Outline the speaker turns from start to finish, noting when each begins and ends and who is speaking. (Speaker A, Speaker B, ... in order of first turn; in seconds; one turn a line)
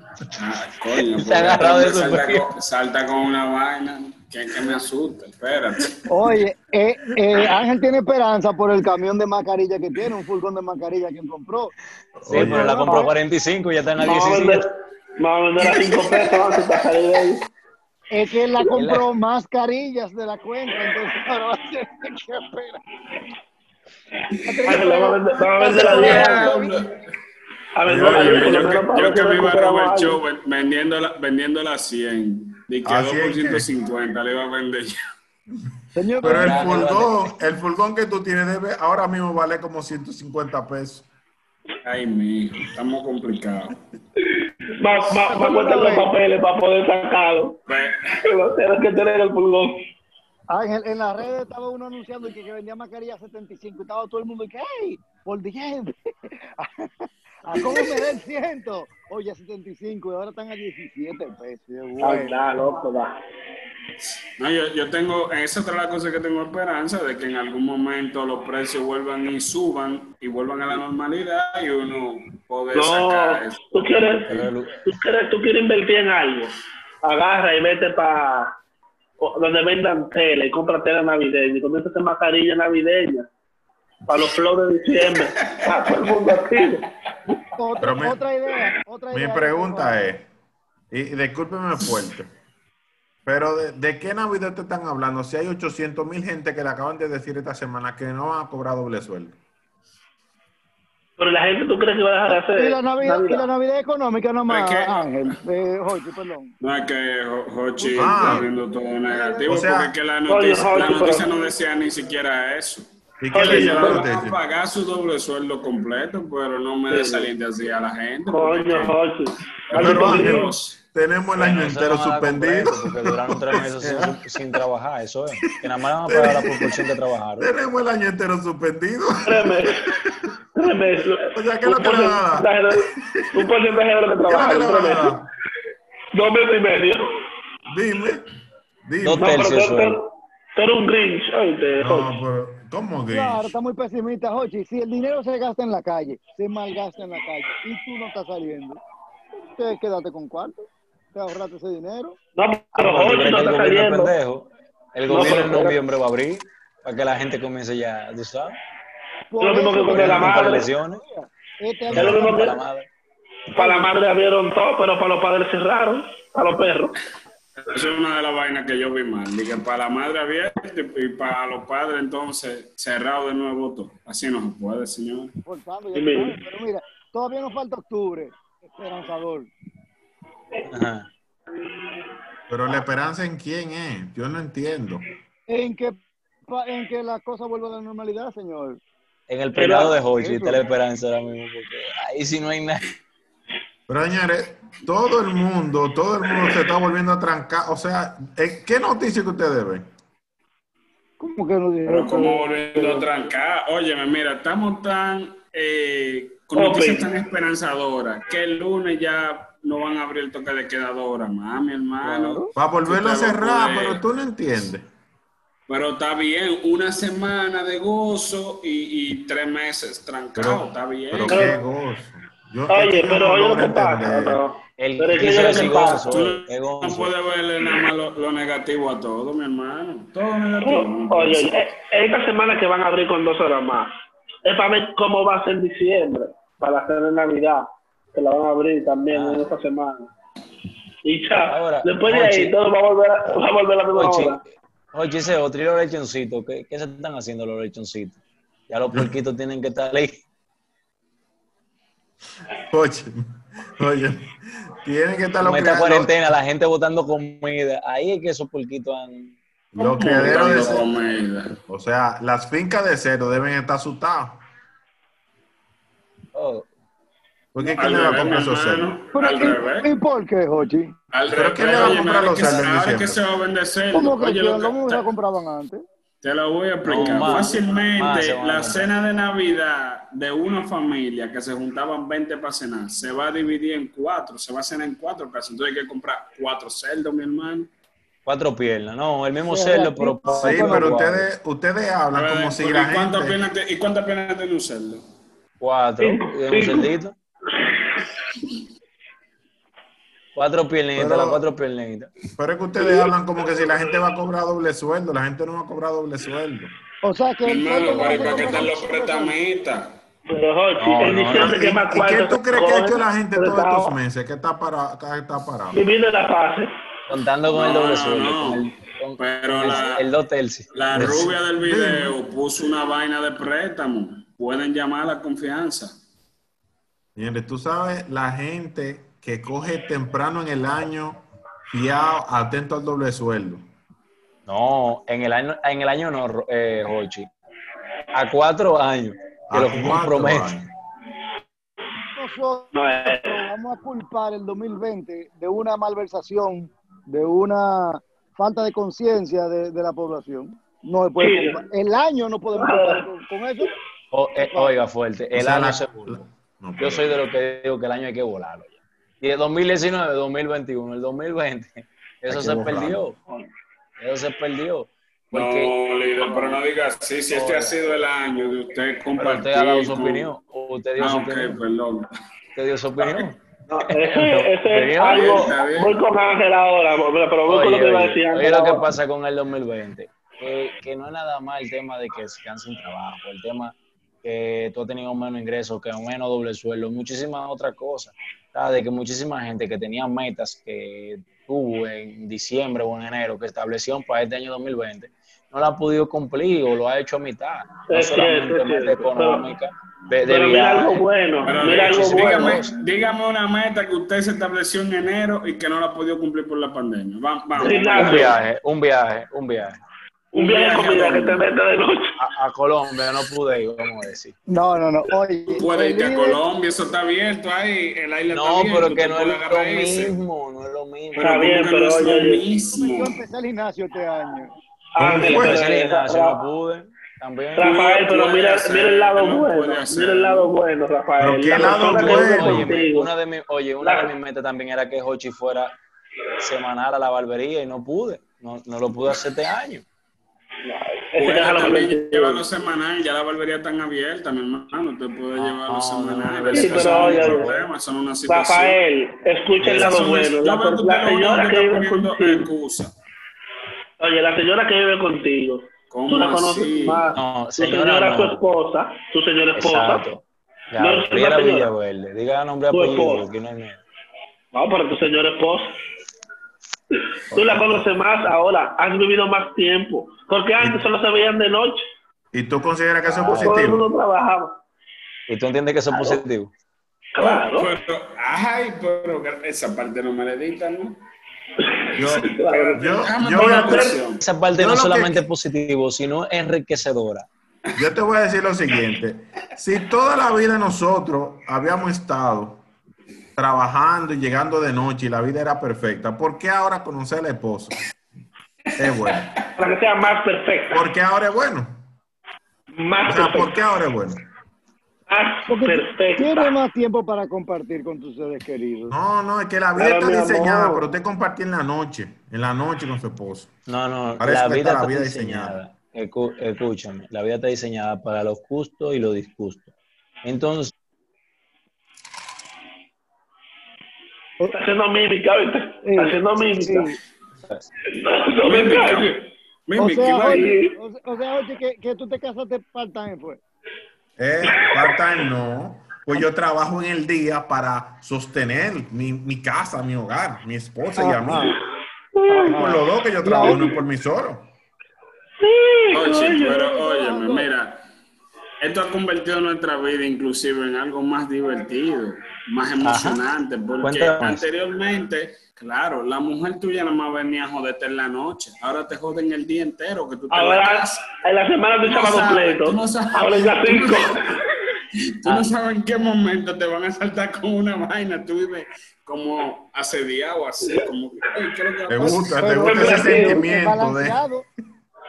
Speaker A: 0.3-6.0
Speaker B: 1.1-2.5
Speaker C: 6.1-11.7
Speaker D: 12.2-12.9
Speaker B: 12.2-14.7
Speaker C: 12.3-13.1
Speaker E: 14.0-17.5
Speaker A: 15.7-16.4
Speaker C: 18.1-22.8
Speaker B: 18.7-19.1
Speaker C: 24.4-26.8
Speaker E: 24.6-26.6
Speaker A: 25.6-26.9
Speaker E: 27.8-30.2
Speaker D: 27.9-28.5
Speaker A: 27.9-35.0
Speaker D: 32.8-33.7
Speaker C: 35.9-36.6
Speaker D: 36.2-41.0
Speaker B: 36.2-37.2
Speaker A: 41.8-43.8
Speaker E: 44.4-47.6
Speaker C: 45.2-46.1
Speaker A: 47.7-48.2
Speaker E: 48.2-49.8
Speaker C: 50.5-62.4
Speaker E: 62.0-63.1
Speaker A: 64.4-73.8
Speaker E: 72.7-78.5
Speaker B: 74.3-74.9
Speaker E: 79.2-83.3
Speaker E: 84.1-86.9
Speaker A: 85.0-86.3
Speaker C: 87.5-90.0
Speaker D: 87.8-88.2
Speaker D: 89.1-90.2
Speaker D: 90.9-92.3
Speaker D: 93.2-99.4
Speaker E: 101.2-103.5
Speaker C: 102.5-106.5
Speaker A: 104.5-105.3
Speaker A: 106.6-119.0
Speaker C: 107.8-109.5
Speaker D: 108.0-108.5
Speaker D: 109.5-109.9
Speaker E: 110.3-111.3
Speaker D: 113.2-114.4
Speaker E: 113.3-114.1
Speaker E: 116.9-117.3
Speaker E: 118.3-120.5
Speaker A: 119.6-120.8
Speaker D: 119.8-124.6
Speaker B: 121.3-127.5
Speaker D: 126.0-126.8
Speaker D: 127.4-130.2
Speaker E: 129.2-130.0
Speaker E: 130.5-135.2
Speaker D: 131.3-133.5
Speaker D: 134.2-135.3
Speaker E: 136.1-137.1
Speaker D: 137.7-138.3
Speaker D: 138.8-139.4
Speaker B: 139.0-140.0
Speaker E: 139.2-142.1
Speaker D: 141.8-143.5
Speaker C: 143.1-148.8
Speaker C: 149.5-152.2
Speaker E: 152.4-154.1
Speaker B: 152.7-158.6
Speaker E: 155.1-155.8
Speaker C: 159.3-162.5
Speaker E: 159.4-160.7
Speaker B: 159.9-161.0
Speaker E: 161.9-162.6
Speaker B: 161.9-162.9
Speaker E: 163.5-166.9
Speaker C: 163.6-163.9
Speaker A: 167.6-175.3
Speaker C: 175.4-179.5
Speaker E: 175.9-176.4
Speaker B: 180.7-181.1
Speaker D: 182.5-185.1
Speaker C: 185.5-188.8
Speaker B: 189.3-192.8
Speaker E: 189.5-190.0
Speaker C: 190.1-190.6
Speaker D: 193.9-199.8
Speaker C: 201.2-203.1
Speaker A: 201.8-214.0
Speaker E: 206.5-207.1
Speaker B: 212.0-212.5
Speaker D: 212.6-214.8
Speaker A: 215.7-221.5
Speaker D: 220.3-224.4
Speaker E: 221.3-221.6
Speaker E: 222.7-226.1
Speaker B: 224.8-227.1
Speaker A: 226.1-231.6
Speaker E: 230.6-240.1
Speaker B: 239.1-239.4
Speaker E: 241.0-244.4
Speaker B: 241.4-242.5
Speaker B: 243.9-248.2
Speaker B: 248.7-250.2
Speaker D: 252.7-253.2
Speaker D: 253.8-256.2
Speaker B: 255.4-259.4
Speaker D: 259.7-260.9
Speaker A: 259.9-261.5
Speaker D: 261.7-264.4
Speaker B: 266.3-266.7
Speaker D: 267.5-268.9
Speaker A: 267.7-269.9
Speaker C: 269.1-270.9
Speaker A: 271.1-275.1
Speaker D: 271.3-273.2
Speaker B: 271.7-272.6
Speaker C: 273.9-275.8
Speaker A: 276.2-287.7
Speaker B: 276.8-278.9
Speaker B: 288.2-291.3
Speaker C: 289.5-291.0
Speaker D: 290.3-293.4
Speaker A: 292.1-295.0
Speaker B: 295.6-297.1
Speaker E: 296.0-296.9
Speaker B: 300.3-302.1
Speaker D: 300.9-301.4
Speaker D: 302.4-306.8
Speaker C: 307.0-309.3
Speaker A: 307.4-309.9
Speaker E: 310.3-314.0
Speaker B: 310.8-311.6
Speaker D: 311.2-315.8
Speaker E: 315.7-316.7
Speaker B: 317.1-321.3
Speaker A: 317.5-318.6
Speaker A: 319.2-320.0
Speaker A: 320.7-325.9
Speaker D: 321.6-322.2
Speaker D: 327.1-333.6
Speaker B: 334.5-337.3
Speaker B: 338.1-340.6
Speaker D: 339.5-340.7
Speaker C: 342.1-353.7
Speaker E: 342.7-343.4
Speaker E: 351.2-351.6
Speaker E: 352.5-353.0
Speaker B: 354.1-356.2
Speaker C: 354.5-354.7
Speaker D: 355.3-357.2
Speaker B: 356.8-363.2
Speaker D: 362.3-363.0
Speaker B: 364.0-365.7
Speaker A: 365.3-370.3
Speaker B: 367.3-367.8
Speaker B: 369.2-371.6
Speaker A: 371.0-372.1
Speaker B: 372.5-373.4
Speaker A: 373.0-373.2
Speaker E: 373.7-378.9
Speaker B: 373.9-375.5
Speaker A: 375.0-376.0
Speaker B: 377.4-402.7
Speaker E: 397.9-399.5
Speaker E: 400.2-402.6
Speaker A: 401.4-408.4
Speaker E: 407.6-408.4
Speaker B: 407.9-409.8
Speaker E: 410.3-412.1
Speaker A: 410.3-411.4
Speaker B: 412.2-414.3
Speaker C: 414.5-416.4
Speaker A: 415.5-420.2
Speaker B: 418.3-421.5
Speaker E: 421.1-422.4
Speaker A: 421.2-423.2
Speaker C: 422.7-424.5
Speaker E: 424.9-426.4
Speaker D: 425.0-425.6
Speaker B: 425.2-427.8
Speaker E: 427.6-433.1
Speaker A: 427.6-430.5
Speaker D: 431.2-432.7
Speaker B: 431.8-435.7
Speaker E: 433.8-434.1
Speaker B: 436.4-439.8
Speaker E: 440.6-442.4
Speaker A: 441.2-448.8
Speaker B: 445.4-447.7
Speaker E: 446.5-447.5
Speaker E: 448.3-452.5
Speaker B: 449.6-450.0
Speaker A: 449.6-452.9
Speaker E: 454.0-460.0
Speaker A: 455.9-457.1
Speaker B: 457.1-458.4
Speaker B: 459.5-463.8
Speaker E: 460.8-461.7
Speaker E: 462.7-463.3
Speaker E: 464.5-465.8
Speaker E: 467.3-471.9
Speaker D: 467.3-467.9
Speaker D: 472.3-473.9
Speaker B: 473.2-473.5
Speaker E: 473.2-474.6
Speaker B: 475.3-476.5
Speaker E: 475.9-476.2
Speaker E: 477.1-477.7
Speaker A: 477.2-481.0
Speaker E: 481.6-484.0
Speaker D: 481.9-484.0
Speaker A: 482.5-484.2
Speaker B: 484.2-487.3
Speaker D: 484.5-485.3
Speaker D: 487.8-492.6
Speaker D: 493.4-497.8
Speaker D: 498.8-499.4
Speaker E: 499.6-500.8
Speaker D: 500.7-501.8
Speaker E: 502.8-503.5
Speaker D: 503.1-504.2
Speaker E: 505.1-506.5
Speaker C: 505.5-508.9
Speaker D: 508.9-513.5
Speaker E: 509.8-510.9
Speaker B: 513.7-519.7
Speaker D: 514.2-515.6
Speaker B: 520.2-520.7
Speaker E: 524.5-526.9
Speaker C: 525.8-527.0
Speaker E: 527.9-529.3
Speaker A: 528.4-530.5
Speaker C: 529.8-533.4
Speaker E: 530.3-530.8
Speaker D: 534.2-541.5
Speaker C: 541.0-541.6
Speaker E: 542.1-542.6
Speaker C: 542.3-543.7
Speaker D: 542.5-544.5
Speaker E: 545.4-546.9
Speaker A: 545.9-547.8
Speaker C: 546.9-547.5
Speaker A: 548.6-561.1
Speaker B: 552.8-553.2
Speaker B: 553.8-554.4
Speaker E: 560.3-564.5
Speaker A: 561.8-564.3
Speaker A: 565.2-572.5
Speaker D: 571.9-574.2
Speaker C: 572.4-574.5
Speaker E: 572.5-573.5